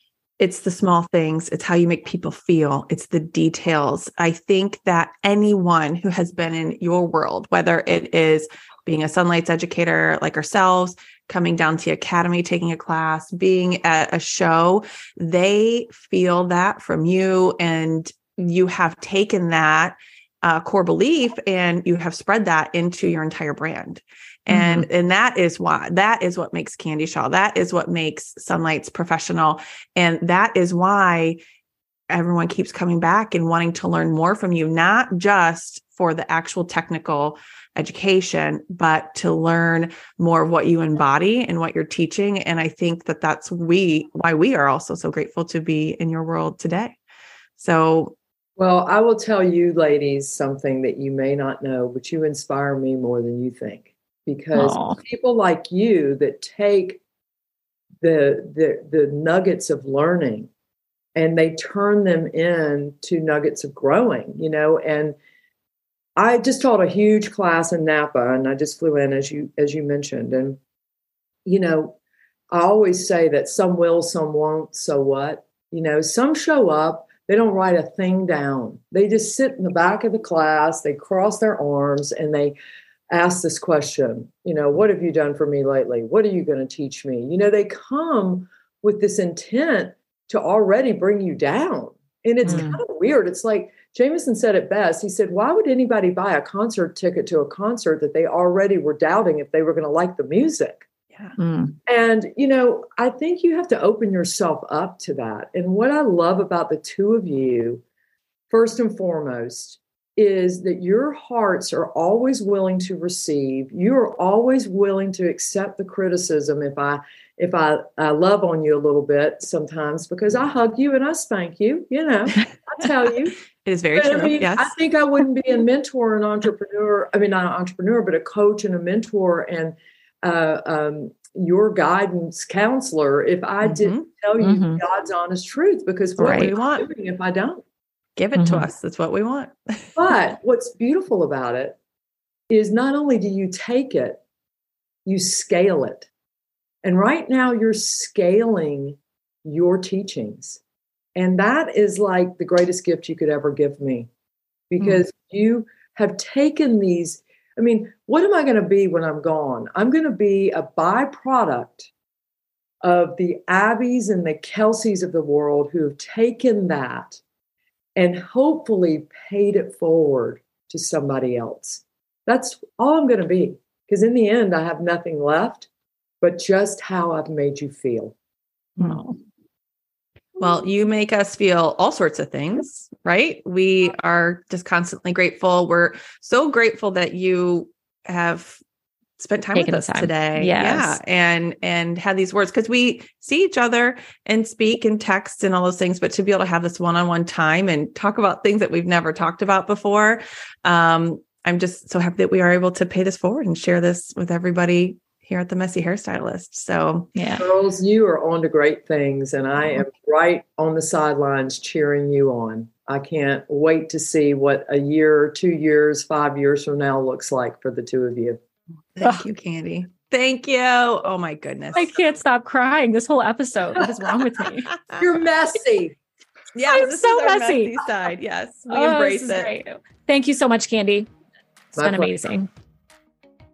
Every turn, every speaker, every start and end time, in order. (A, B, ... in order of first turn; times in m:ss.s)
0:00.4-0:31.4 A
0:24.5-0:24.9 B
0:32.1-0:47.0 A
0:47.6-0:48.1 A
0:48.6-0:57.0 C
0:54.5-0:55.0 B
0:58.0-1:00.5 C
1:01.2-1:05.2 C
1:06.2-1:10.6 C
1:11.5-1:12.0 C
1:12.5-1:22.6 C
1:23.1-1:40.9 C
1:32.4-1:32.8 B
1:41.4-1:41.8 B
1:41.9-1:47.8 C
1:48.5-2:03.4 C
2:03.6-2:04.7 A
2:03.9-2:17.6 C
2:13.6-2:14.1 A
2:14.4-2:14.8 B
2:16.2-2:16.5 B
2:16.2-2:16.9 A
2:18.2-2:20.0 A
2:18.4-2:18.7 B
2:20.0-2:21.8 C
2:22.5-2:24.2 C
2:25.1-2:26.1 C
2:26.8-2:30.6 C
2:31.2-2:34.1 C
2:34.7-2:41.9 C
2:42.8-2:47.2 C
2:48.0-2:55.7 C
2:56.2-2:58.2 C
2:58.8-2:59.2 B
3:00.4-3:08.6 A
3:09.2-3:27.1 A
3:09.6-3:11.0 B
3:27.2-3:27.4 B
3:27.4-3:38.4 C
3:39.0-3:41.9 A
3:41.7-3:44.7 B
3:45.0-3:46.0 C
3:46.6-3:49.5 A
3:46.7-3:47.9 B
3:48.7-3:51.1 B
3:51.7-3:52.5 B
3:51.8-3:52.1 C